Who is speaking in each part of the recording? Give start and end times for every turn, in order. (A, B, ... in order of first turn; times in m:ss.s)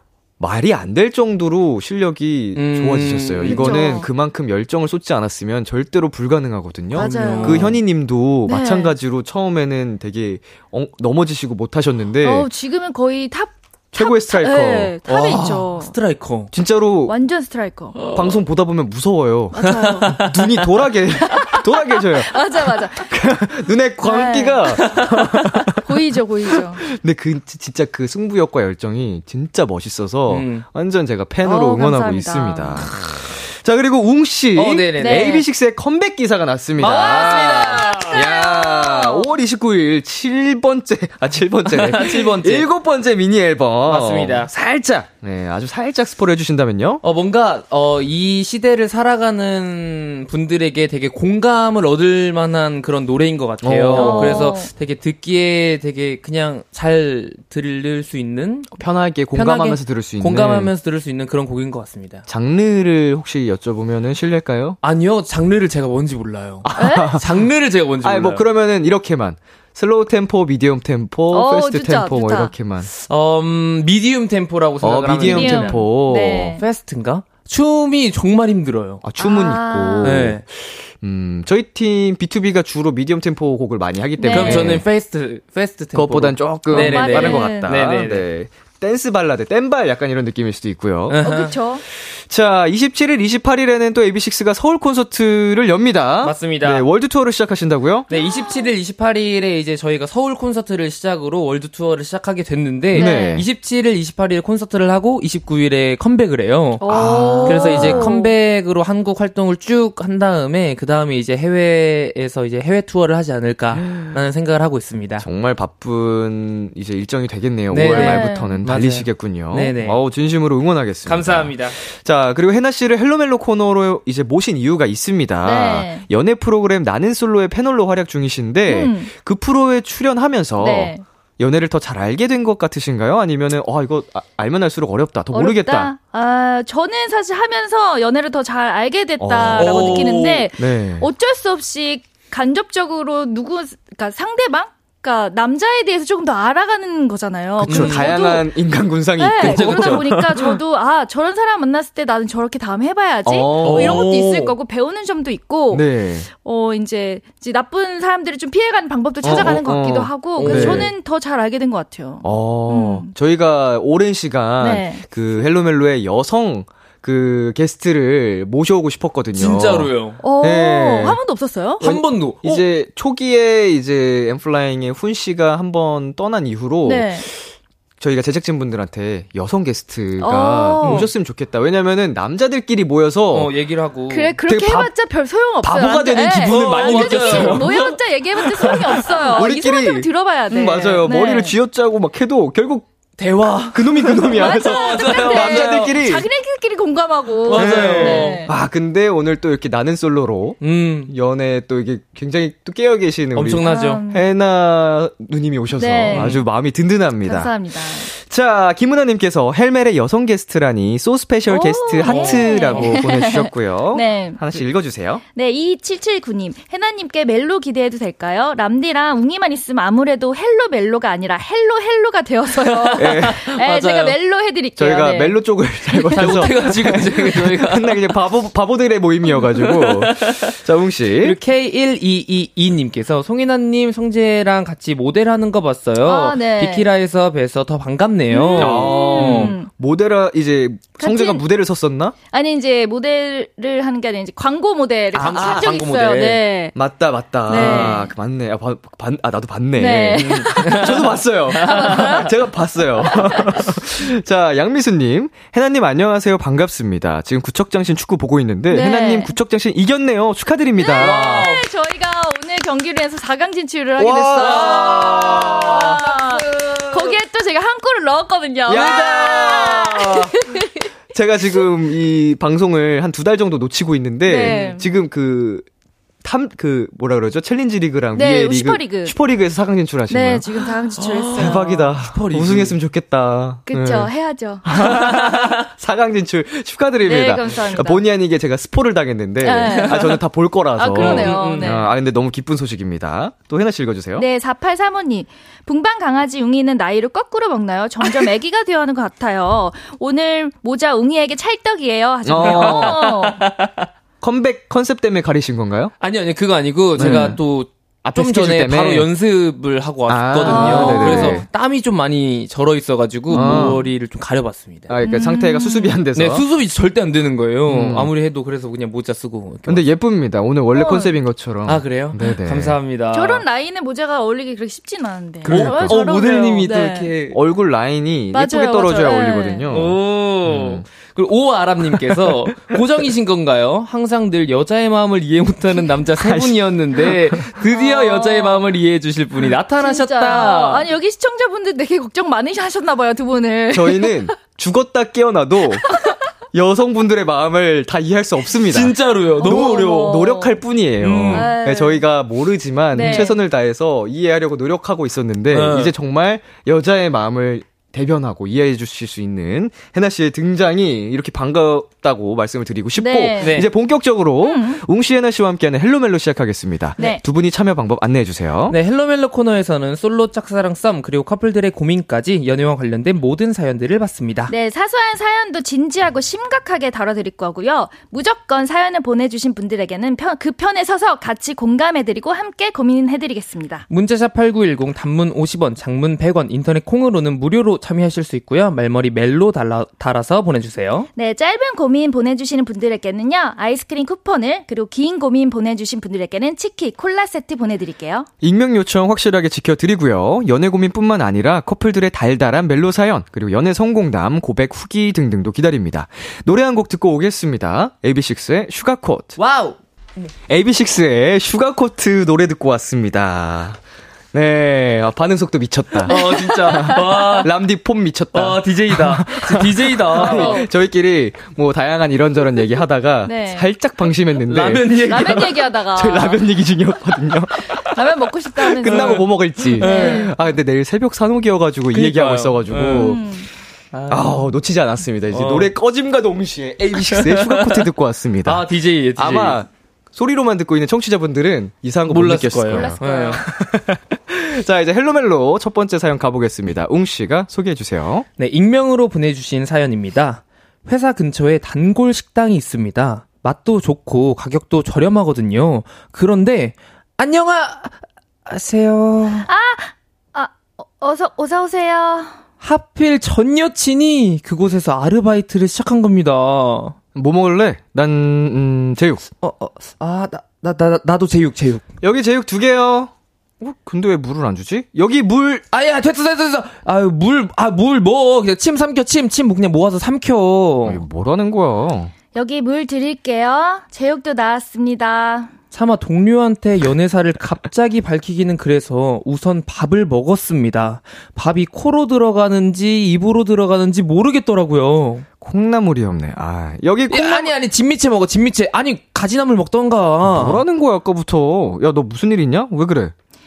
0:00.4-0:12.5 A
0:02.6-0:03.8 B
0:03.4-0:04.1 C
0:07.0-0:07.7 C
0:07.0-0:07.8 B
0:08.5-0:08.9 C
0:12.2-0:15.9 C
0:13.9-0:15.0 A
0:15.1-0:16.5 B
0:16.5-0:17.1 A
0:17.1-0:18.1 C
0:18.1-0:25.8 A
0:19.5-0:20.3 C
0:19.6-0:20.4 B
0:21.3-0:23.2 C
0:24.0-0:25.0 C
0:25.7-0:26.8 C
0:26.8-0:47.0 A
0:30.3-0:30.6 B
0:31.4-0:32.8 C
0:34.6-0:35.4 B
0:35.0-0:35.5 C
0:36.8-0:38.2 B
0:36.9-0:39.3 C
0:41.7-0:42.7 B
0:43.9-0:44.5 B
0:47.0-0:58.7 B
0:53.6-0:54.5 A
0:53.9-0:54.7 C
0:58.8-1:00.7 A
0:59.3-1:02.2 B
1:02.3-1:04.8 A
1:04.8-1:08.4 B
1:06.6-1:07.4 A
1:06.8-1:07.2 C
1:08.0-1:12.9 A
1:11.3-1:12.5 C
1:13.1-1:15.8 B
1:14.8-1:16.6 A
1:15.2-1:16.6 C
1:16.6-1:19.0 B
1:19.0-1:24.9 A
1:19.2-1:20.2 C
1:20.0-1:20.4 B
1:24.2-1:24.8 C
1:24.3-1:28.3 B
1:25.9-1:31.2 A
1:26.7-1:27.7 C
1:31.1-1:31.6 B
1:31.2-1:31.8 C
1:31.9-1:38.1 A
1:36.2-1:36.9 B
1:38.1-1:38.7 C
1:38.1-1:46.8 B
1:42.9-1:43.4 C
1:42.9-1:43.5 A
1:46.8-1:48.3 C
1:46.9-1:48.1 A
1:47.4-1:55.2 B
1:53.7-1:54.2 A
1:55.2-2:15.9 A
1:57.7-2:00.0 B
1:57.8-1:58.6 C
2:01.1-2:01.8 B
2:05.4-2:06.1 C
2:08.7-2:09.1 C
2:10.6-2:11.0 C
2:15.3-2:28.5 C
2:19.2-2:21.1 A
2:19.7-2:20.0 B
2:27.6-2:28.1 B
2:27.6-2:30.6 A
2:29.2-2:43.1 C
2:29.4-2:30.1 B
2:33.2-2:34.6 A
2:33.6-2:34.2 B
2:35.7-2:36.3 A
2:39.2-2:40.9 A
2:40.4-2:40.9 B
2:42.2-2:51.2 A
2:44.6-2:45.0 C
2:49.4-2:50.2 B
2:50.2-2:51.9 C
2:51.8-2:52.6 B
2:51.8-3:03.5 A
2:56.8-2:57.3 C
3:00.2-3:01.1 C
3:00.8-3:01.1 B
3:03.3-3:04.4 B
3:04.1-3:11.5 C
3:04.5-3:04.9 A
3:05.6-3:07.8 A
3:06.5-3:08.0 B
3:08.5-3:12.9 A
3:08.6-3:09.4 B
3:13.2-3:16.0 B
3:13.6-3:16.3 A
3:14.3-3:18.5 C
3:17.5-3:18.5 B
3:17.5-3:35.2 A
3:20.6-3:21.1 B
3:23.4-3:24.0 B
3:23.6-3:24.3 C
3:25.8-3:26.4 C
3:26.1-3:26.4 B
3:27.2-3:28.1 C
3:31.5-3:34.4 C
3:32.0-3:32.9 B
3:35.4-3:46.5 C
3:42.6-3:44.2 B
3:43.0-3:43.6 A
3:44.8-3:51.4 A
3:46.2-3:47.9 B
3:49.6-3:50.6 B
3:51.2-3:59.5 B
3:56.0-3:56.9 C
3:58.3-3:59.7 C
3:58.6-4:02.2 A
4:01.0-4:01.4 C
4:02.3-4:06.8 C
4:05.1-4:05.8 A
4:05.2-4:06.4 B
4:06.8-4:21.5 A
4:07.5-4:08.1 C
4:07.5-4:08.0 B
4:09.8-4:12.4 C
4:10.2-4:10.9 B
4:11.7-4:12.3 B
4:13.0-4:13.6 C
4:18.7-4:19.3 C
4:20.8-4:30.9 C
4:21.0-4:21.6 B
4:24.0-4:26.0 A
4:24.4-4:27.2 B
4:28.7-4:30.4 A
4:31.1-4:35.7 A
4:34.2-4:34.8 C
4:34.4-4:34.8 B
4:36.2-4:40.8 A
4:38.1-4:39.2 C
4:40.1-4:41.8 C
4:41.0-4:42.8 B
4:41.4-4:44.1 A
4:43.7-4:45.0 C
4:44.7-4:54.3 A
4:44.8-4:45.3 B
4:47.0-4:48.0 C
4:49.4-4:50.1 C
4:49.8-4:50.2 B
4:50.8-4:51.9 C
4:51.0-4:51.7 B
4:54.2-5:03.4 C
5:02.2-5:03.0 A
5:02.4-5:03.9 B
5:04.2-5:05.9 A
5:06.0-5:15.0 B
5:07.0-5:07.4 A
5:08.0-5:09.1 A
5:10.1-5:11.5 A
5:10.4-5:11.4 C
5:13.3-5:13.7 C
5:13.3-5:13.8 A
5:14.9-5:16.4 A
5:15.0-5:16.0 C
5:16.2-5:19.9 B
5:17.7-5:18.1 A
5:19.7-5:22.8 A
5:20.7-5:21.1 C
5:21.7-5:23.4 B
5:23.1-5:27.1 C
5:25.4-5:27.4 B
5:25.4-5:30.9 A
5:28.3-5:29.7 C
5:29.7-5:40.9 B
5:32.0-5:32.8 A
5:36.2-5:37.3 A
5:37.6-5:38.6 C
5:39.8-5:44.3 C
5:43.7-5:45.9 A
5:46.5-6:08.8 A
5:48.7-5:50.1 B
5:49.4-5:50.6 C
5:51.0-5:51.5 B
5:51.3-5:52.0 C
5:52.9-5:53.4 C
5:53.0-5:53.3 B
5:55.5-5:55.9 B
6:03.0-6:03.7 C
6:03.4-6:03.7 B
6:04.4-6:04.8 C
6:08.7-6:14.5 B
6:14.5-6:23.9 C
6:23.9-6:31.1 B
6:31.2-6:38.3 C
6:38.4-6:49.4 A
6:49.4-6:49.8 B
6:50.5-6:53.8 A
6:54.3-7:07.9 A
6:56.1-6:57.4 C
6:56.1-6:57.5 B
6:58.3-7:00.6 B
7:00.3-7:00.6 C
7:03.2-7:03.7 C
7:04.5-7:05.5 B
7:05.0-7:06.4 C
7:07.8-7:10.3 C
7:08.6-7:13.2 A
7:08.9-7:10.3 B
7:11.9-7:13.2 B
7:12.9-7:13.5 C
7:13.9-7:14.5 B
7:14.1-7:28.3 A
7:15.3-7:15.7 B
7:17.0-7:17.9 B
7:18.4-7:19.6 B
7:22.1-7:23.4 B
7:22.7-7:23.5 C
7:28.4-7:39.5 B
7:39.4-7:42.4 C
7:42.6-7:47.0 B
7:47.2-7:49.2 A
7:49.4-7:51.8 B
7:52.0-7:55.6 A
7:55.7-8:01.0 B
8:00.8-8:02.1 A
8:02.4-8:05.5 C
8:05.7-8:15.2 B
8:15.4-8:17.5 A
8:17.1-8:20.6 B
8:20.2-8:23.1 A